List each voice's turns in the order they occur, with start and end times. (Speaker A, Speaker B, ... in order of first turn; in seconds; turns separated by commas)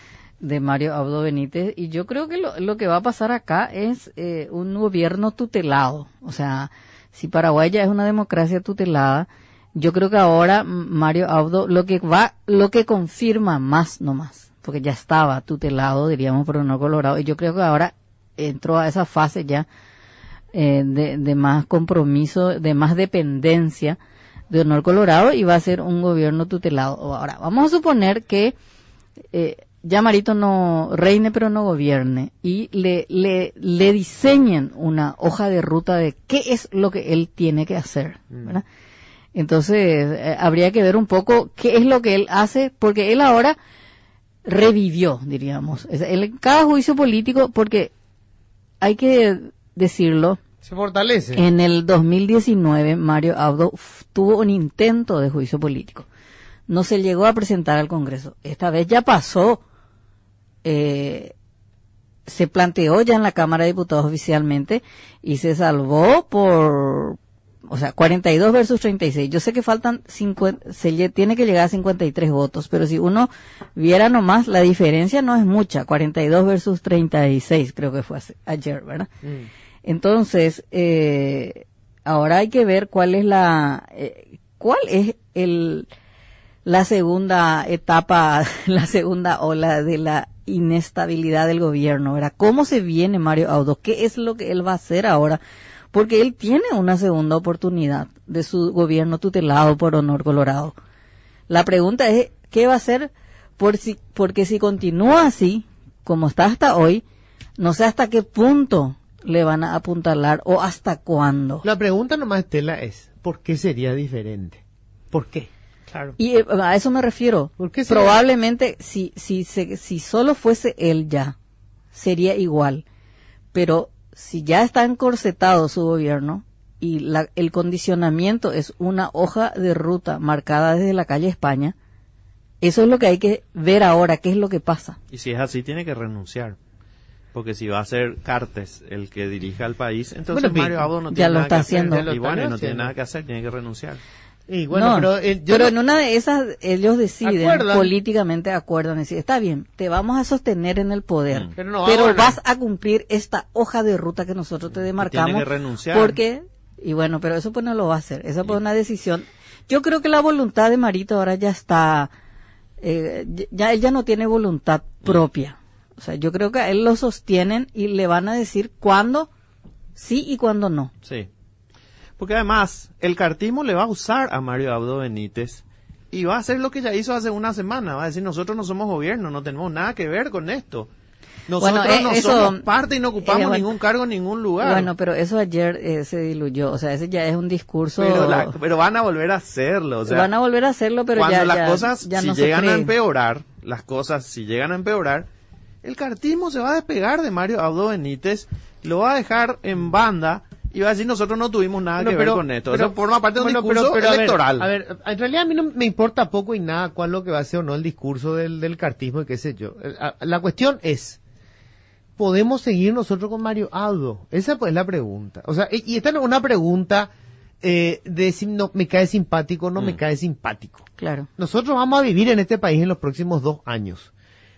Speaker A: 0.4-19.6, Speaker A: 20.5-24.0, Speaker A: 24.5-28.5, Speaker A: 29.3-38.6, Speaker A: 39.3-43.5, Speaker A: 44.5-47.9, Speaker A: 48.8-50.4, Speaker B: 50.6-51.4, Speaker A: 51.3-56.0, Speaker A: 56.7-59.6, Speaker A: 60.6-61.3, Speaker A: 62.3-79.1, Speaker A: 79.8-85.9, Speaker A: 86.7-95.4, Speaker A: 95.9-100.7, Speaker A: 101.5-107.0, Speaker A: 107.6-111.6, Speaker B: 111.6-116.1, Speaker A: 116.2-121.3, Speaker B: 117.6-118.2, Speaker A: 121.9-122.8, Speaker A: 123.5-131.7, Speaker A: 132.6-135.0, Speaker C: 135.1-136.6, Speaker C: 137.3-144.0, Speaker B: 140.3-140.9, Speaker A: 141.1-142.1, Speaker B: 141.8-142.9, Speaker B: 144.5-145.7, Speaker A: 144.7-162.1, Speaker B: 147.2-147.9, Speaker B: 151.6-152.4, Speaker C: 155.0-156.2, Speaker A: 162.8-169.3, Speaker A: 169.9-170.9, Speaker C: 172.2-180.9, Speaker C: 181.5-184.9, Speaker A: 181.6-182.6, Speaker A: 183.2-183.7, Speaker A: 184.6-188.5, Speaker C: 188.0-190.3, Speaker A: 190.0-192.9, Speaker C: 191.1-195.3, Speaker C: 195.8-204.7, Speaker B: 202.0-211.2, Speaker B: 212.2-224.1, Speaker A: 221.0-221.3